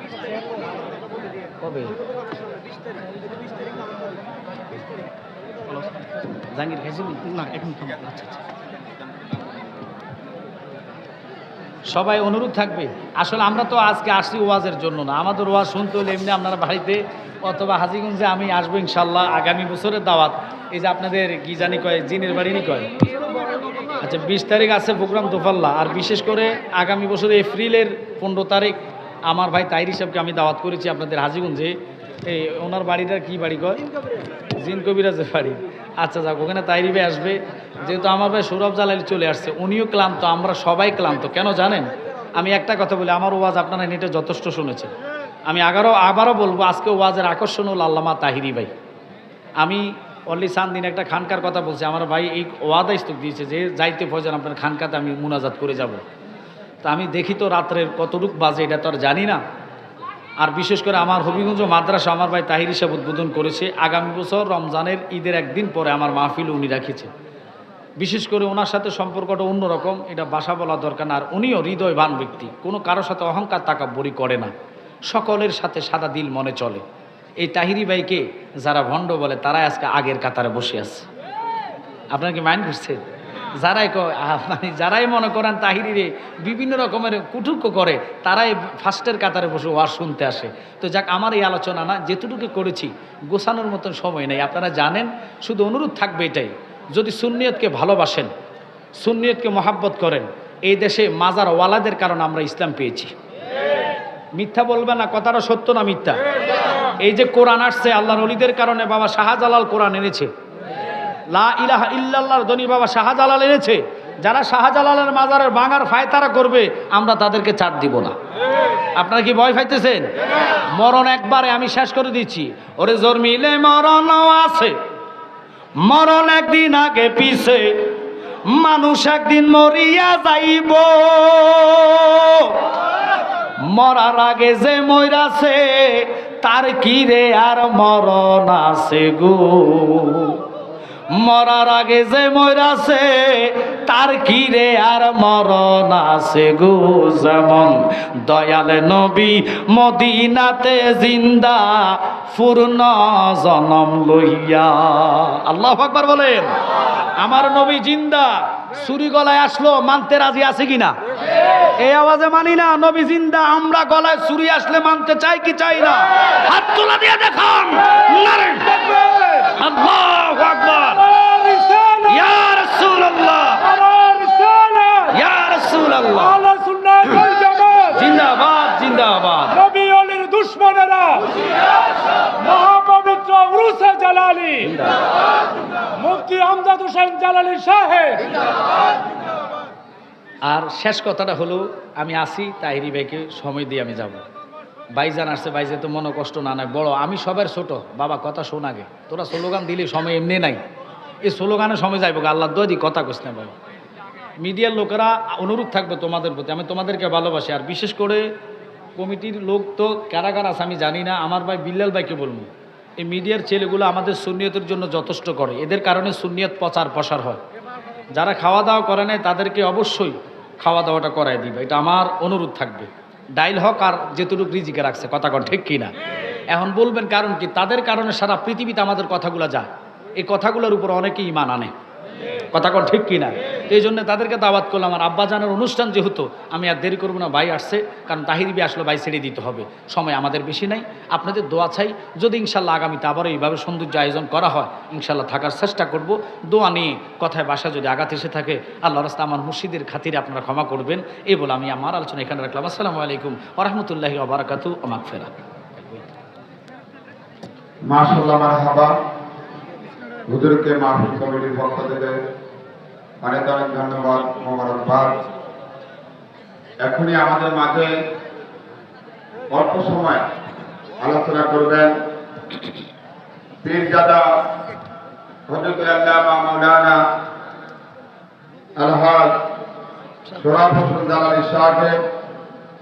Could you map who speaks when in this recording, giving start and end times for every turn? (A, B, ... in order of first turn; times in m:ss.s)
0:01.6-0:01.9 A
0:06.5-0:08.4 A
0:11.9-0:22.9 A
0:24.0-0:28.8 A
0:29.3-0:31.7 A
0:32.2-0:33.8 A
0:34.6-0:44.9 A
0:45.5-0:48.7 A
0:49.6-0:56.0 A
0:56.8-0:59.4 A
1:00.4-1:07.1 A
1:08.0-1:14.5 A
1:15.1-1:16.8 A
1:17.4-1:21.0 A
1:22.1-1:23.0 A
1:23.6-1:38.3 A
1:39.0-1:43.1 A
1:44.4-1:46.2 A
1:47.0-1:50.3 A
1:51.3-1:58.1 A
1:59.0-2:00.0 A
2:00.8-2:04.7 A
2:05.8-2:07.7 A
2:08.5-2:12.5 A
2:13.7-2:20.4 A
2:21.1-2:36.5 A
2:37.2-2:40.9 A
2:41.8-2:48.8 A
2:48.8-2:49.4 B
2:49.5-2:51.0 A
2:51.0-2:52.2 B
2:52.1-2:53.6 A
2:53.6-2:55.1 B
2:55.1-2:56.3 A
2:56.2-2:58.0 B
2:58.0-2:59.6 A
2:59.5-3:01.5 B
3:02.4-3:04.7 B
3:04.6-3:04.9 A
3:06.0-3:08.3 B
3:10.5-3:14.2 A
3:14.9-3:20.6 A
3:21.2-3:23.5 A
3:24.4-3:28.2 A
3:29.0-3:32.5 A
3:33.0-3:37.4 A
3:38.1-3:45.9 A
3:46.5-3:49.7 A
3:50.2-3:51.7 A
3:52.5-4:15.8 A
4:17.9-4:18.9 C
4:20.3-4:22.2 C
4:23.2-4:25.2 C
4:26.8-4:28.0 C
4:29.5-4:30.2 C
4:31.0-4:32.0 C
4:33.6-4:34.2 C
4:35.5-4:37.0 C
4:38.8-4:39.4 C
4:40.4-4:42.0 C